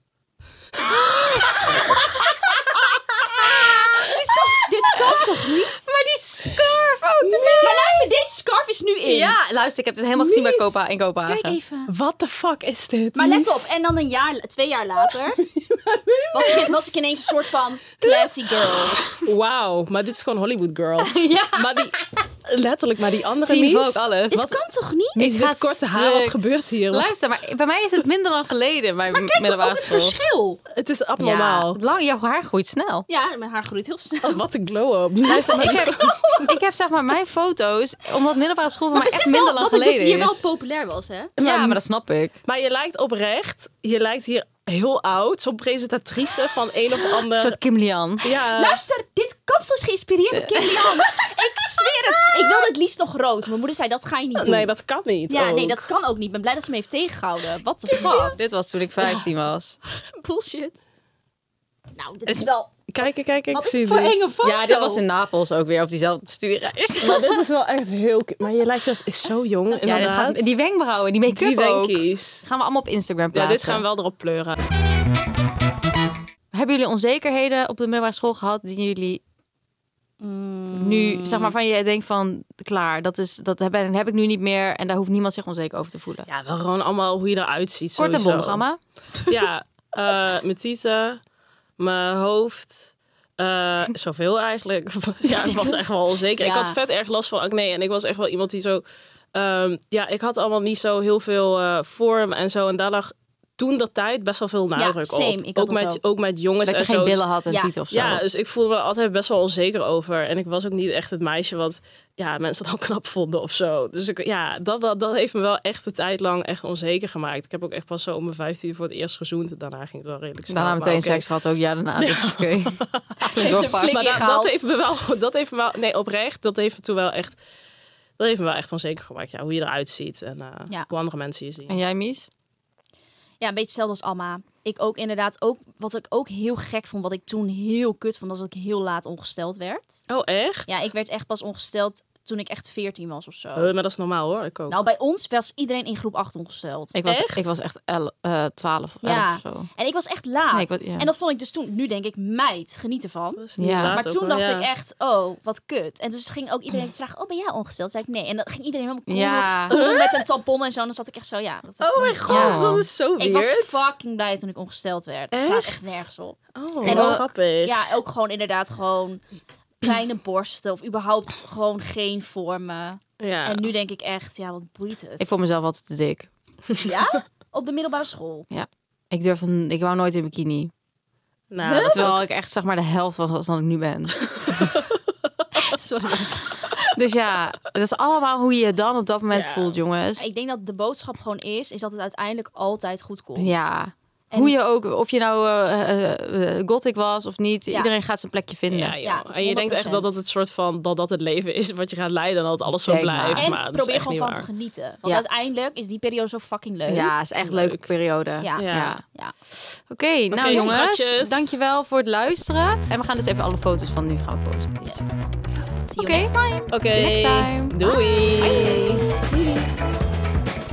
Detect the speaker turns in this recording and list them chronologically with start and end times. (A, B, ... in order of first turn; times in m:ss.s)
0:00.9-0:08.1 A
0:04.0-0:05.9 B
0:07.2-0:07.8 C
0:07.6-0:09.4 B
0:09.0-0:11.6 A
0:10.2-0:10.6 C
0:11.3-0:11.9 B
0:11.9-0:13.7 C
0:13.1-0:15.4 B
0:15.4-0:17.3 C
0:16.3-0:19.0 B
0:18.0-0:24.1 C
0:21.0-0:22.0 A
0:23.4-0:24.6 A
0:24.3-0:25.2 B
0:25.2-0:26.4 A
0:25.2-0:27.1 C
0:26.9-0:30.2 A
0:29.1-0:30.6 B
0:30.7-0:31.8 C
0:31.2-0:33.1 A
0:33.1-0:34.4 B
0:34.2-0:36.5 C
0:35.2-0:40.4 A
0:35.5-0:36.5 B
0:38.9-0:41.4 B
0:41.4-0:41.8 C
0:41.4-0:42.4 A
0:42.4-0:47.6 C
0:47.4-0:48.2 A
0:48.2-0:48.8 C
0:48.5-0:54.7 B
0:50.6-0:51.2 A
0:54.4-0:55.9 C
0:55.3-0:58.4 B
0:57.9-0:59.8 A
0:59.9-1:00.8 B
1:01.9-1:05.0 B
1:02.9-1:04.2 C
1:04.4-1:07.4 A
1:07.0-1:10.5 C
1:09.8-1:10.2 B
1:09.8-1:13.8 A
1:11.3-1:12.4 C
1:13.3-1:14.6 C
1:16.5-1:19.2 A
1:20.2-1:21.6 B
1:20.7-1:26.3 A
1:26.3-1:28.6 C
1:28.0-1:28.8 A
1:29.3-1:31.2 C
1:31.8-1:38.8 C
1:35.3-1:35.8 B
1:35.4-1:35.7 A
1:36.4-1:36.8 B
1:39.4-1:47.2 C
1:44.8-1:46.0 B
1:46.6-1:48.2 A
1:47.5-1:47.7 B
1:47.9-2:01.2 C
2:00.5-2:04.1 A
2:02.0-2:07.4 C
2:03.3-2:04.6 B
2:08.2-2:11.8 C
2:11.7-2:12.3 A
2:13.4-2:20.0 B
2:20.1-2:20.9 C
2:20.7-2:23.7 B
2:23.6-2:24.8 C
2:24.7-2:26.9 B
2:26.9-2:29.7 A
2:27.1-2:27.5 C
2:29.0-2:49.2 B
2:30.5-2:31.1 A
2:33.4-2:34.7 C
2:33.6-2:34.0 A
2:39.1-2:39.8 A
2:39.7-2:40.2 C
2:41.8-2:43.9 C
2:42.3-2:42.9 A
2:45.3-2:46.0 C
2:46.6-2:47.8 C
2:46.8-2:47.3 A
2:49.8-2:55.3 B
2:53.2-2:53.7 C
2:55.2-2:56.3 A
2:56.8-2:58.5 B
2:58.5-3:00.7 A
3:01.5-3:02.2 C
3:01.6-3:02.1 B
3:01.9-3:04.7 A
3:04.5-3:04.9 C
3:05.6-3:06.5 B
3:06.7-3:10.2 A
3:09.3-3:09.8 C
3:10.2-3:13.7 B
3:13.4-3:18.9 A
3:18.7-3:24.5 C
3:19.0-3:20.2 B
3:22.9-3:23.5 A
3:23.4-3:27.2 B
3:26.9-3:35.2 A
3:27.4-3:27.9 C
3:28.4-3:29.3 B
3:28.6-3:28.9 C
3:30.3-3:31.5 C
3:30.4-3:30.8 B
3:34.8-3:35.3 B
3:35.8-3:36.7 B
3:36.0-3:37.8 A
3:36.7-3:39.0 C
3:38.5-3:39.6 B